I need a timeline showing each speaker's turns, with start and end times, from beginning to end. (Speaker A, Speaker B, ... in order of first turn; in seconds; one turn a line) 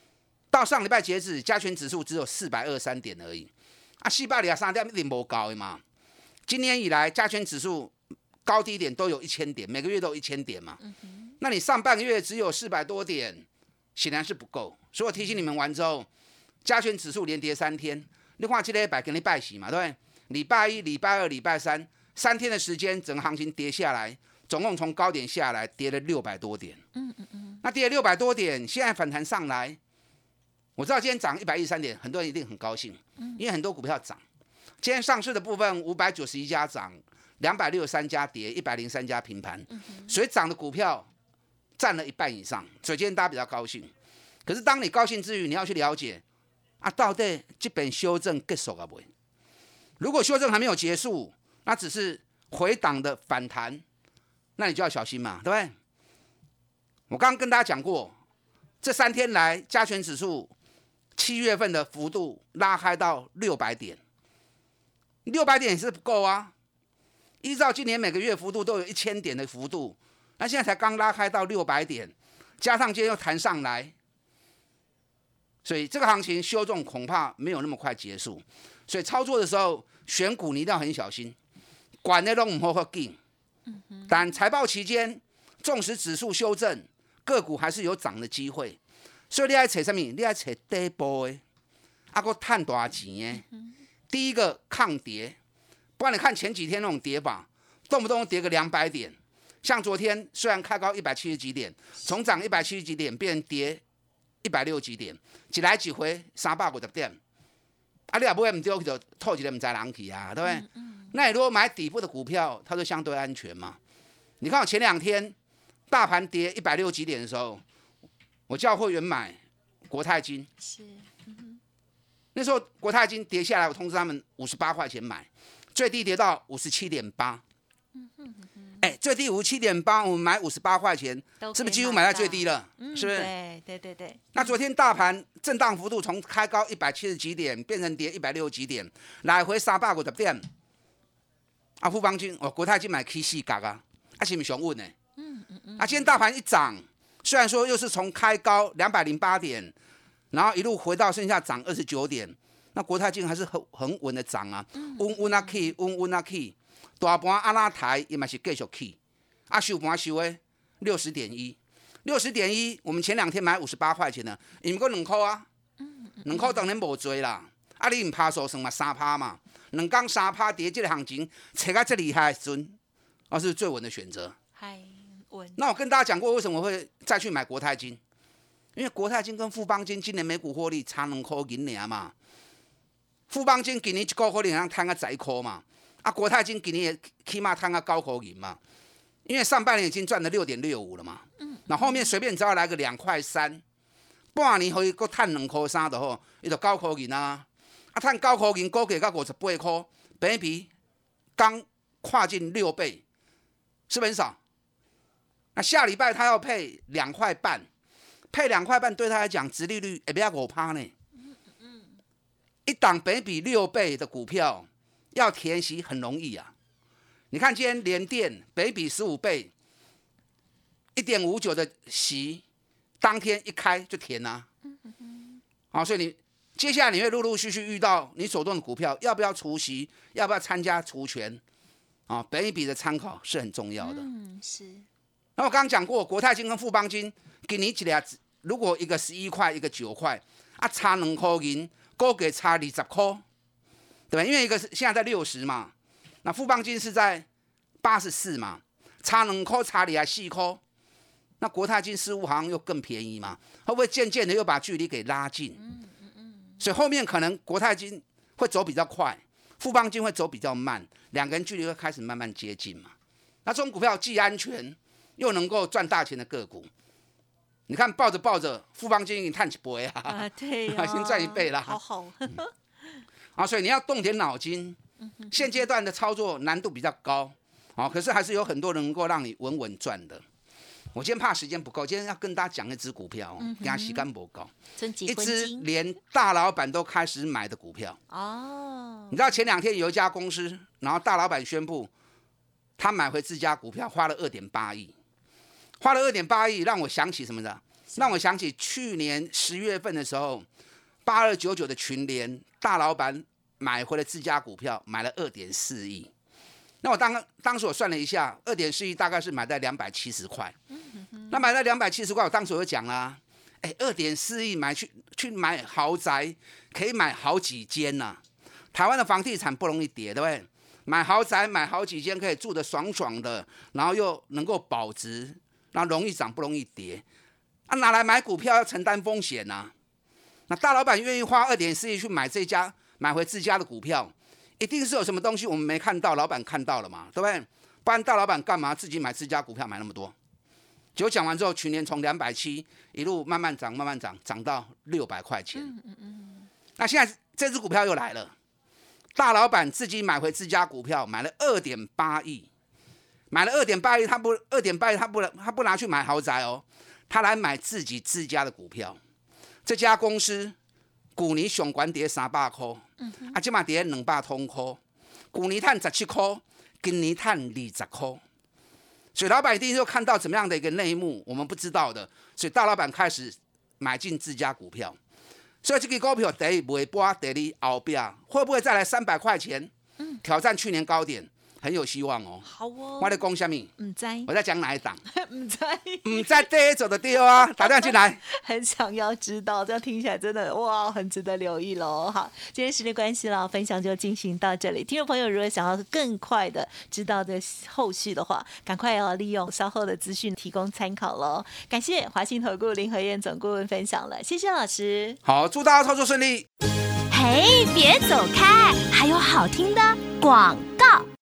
Speaker A: 0.5-3.5
Speaker A: 4.0-5.8
Speaker A: 6.5-7.9
Speaker A: 8.4-10.8
Speaker B: 10.9-11.3
Speaker A: 11.4-16.1
Speaker A: 16.6-26.8
Speaker B: 26.9-27.6
Speaker A: 27.6-29.8
Speaker A: 30.8-34.2
Speaker A: 34.8-41.1
Speaker B: 39.9-40.1
Speaker A: 41.8-43.9
Speaker A: 44.5-46.2
Speaker A: 46.8-49.1
Speaker A: 50.0-53.8
Speaker A: 54.6-55.7
Speaker A: 57.1-58.1
Speaker A: 58.8-60.5
Speaker A: 61.2-64.0
Speaker A: 65.2-66.5
Speaker A: 67.4-73.9
Speaker A: 75.7-81.4
Speaker A: 82.0-83.2
Speaker B: 83.7-84.3
Speaker A: 84.1-88.8
Speaker A: 89.3-91.4
Speaker A: 92.1-93.4
Speaker A: 94.1-95.4
Speaker A: 96.0-103.8
Speaker A: 104.4-107.2
Speaker A: 108.1-113.8
Speaker B: 110.4-111.1
Speaker A: 114.4-115.3
Speaker A: 115.9-117.6
Speaker A: 118.5-119.4
Speaker A: 119.9-120.5
Speaker B: 120.6-121.6
Speaker A: 122.3-127.4
Speaker B: 128.0-128.9
Speaker A: 128.8-133.3
Speaker B: 131.4-134.6
Speaker A: 134.3-140.4
Speaker A: 141.8-144.9
Speaker B: 145.2-146.1
Speaker A: 145.8-149.7
Speaker A: 150.3-159.0
Speaker B: 154.8-155.7
Speaker A: 159.5-165.5
Speaker B: 165.8-166.7
Speaker A: 166.2-172.8
Speaker A: 173.3-174.4
Speaker B: 174.6-175.6
Speaker A: 175.6-178.0
Speaker A: 178.8-182.1
Speaker A: 183.3-188.6
Speaker A: 189.3-193.6
Speaker B: 191.4-192.1
Speaker A: 194.3-200.7
Speaker A: 201.4-203.0
Speaker A: 203.9-204.4
Speaker A: 205.6-207.7
Speaker A: 208.3-210.9
Speaker A: 212.7-216.5
Speaker A: 217.3-219.5
Speaker A: 220.9-222.4
Speaker A: 223.0-224.5
Speaker B: 224.7-225.4
Speaker A: 225.7-231.4
Speaker A: 232.1-234.1
Speaker B: 233.8-234.8
Speaker A: 235.4-243.2
Speaker A: 244.1-245.7
Speaker A: 246.2-247.3
Speaker A: 247.8-250.6
Speaker A: 251.4-255.6
Speaker B: 255.7-256.5
Speaker A: 256.6-262.9
Speaker A: 263.5-266.7
Speaker A: 267.7-271.8
Speaker B: 270.1-272.5
Speaker A: 273.4-274.8
Speaker B: 275.1-275.6
Speaker A: 275.3-280.2
Speaker A: 280.9-284.5
Speaker B: 283.4-284.1
Speaker B: 284.8-285.7
Speaker A: 285.1-288.0
Speaker B: 288.1-289.3
Speaker A: 289.1-291.9
Speaker A: 292.8-294.9
Speaker A: 295.8-300.5
Speaker A: 301.1-306.1
Speaker A: 306.8-310.6
Speaker B: 310.7-311.4
Speaker A: 311.3-318.2
Speaker A: 318.7-327.0
Speaker A: 327.7-329.7
Speaker A: 330.5-340.1
Speaker A: 341.0-345.7
Speaker B: 345.6-346.5
Speaker A: 346.8-348.3
Speaker A: 349.1-352.5
Speaker A: 353.3-359.0
Speaker A: 359.6-360.6
Speaker A: 361.2-364.8
Speaker B: 363.0-363.4
Speaker A: 365.3-368.2
Speaker A: 369.1-375.0
Speaker A: 375.6-379.7
Speaker A: 380.2-382.4
Speaker B: 382.4-383.2
Speaker A: 383.0-383.7
Speaker B: 383.8-384.3
Speaker A: 384.3-385.0
Speaker B: 385.1-386.5
Speaker A: 386.0-388.2
Speaker B: 387.3-405.2
Speaker A: 405.2-406.5
Speaker C: 407.1-411.1